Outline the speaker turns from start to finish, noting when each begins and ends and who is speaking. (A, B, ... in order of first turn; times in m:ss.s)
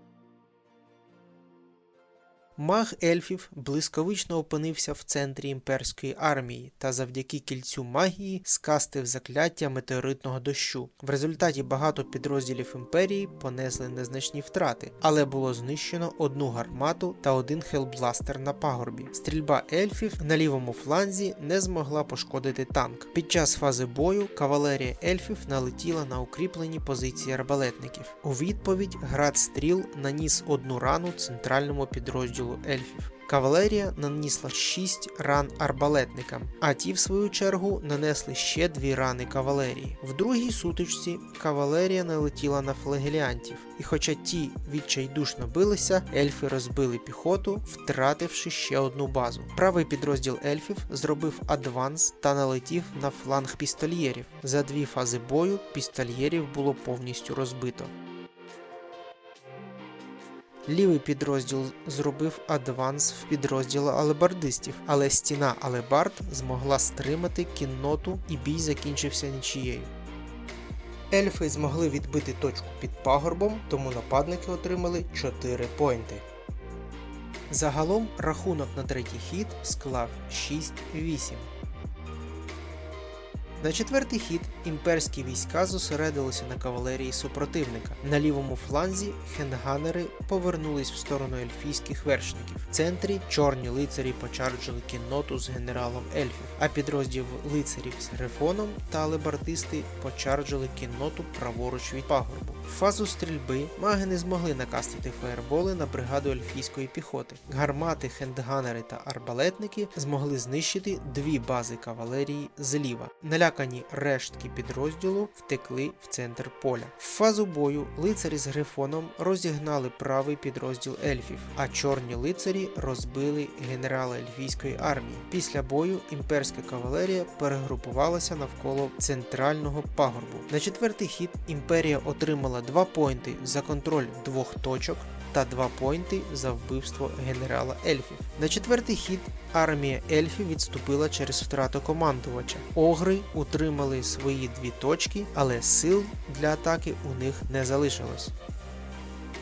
0:02.6-0:57.9 A
1:00.7-1:09.9 A
1:11.1-1:16.2 A
1:17.5-1:21.5 A
1:23.6-2:28.3 A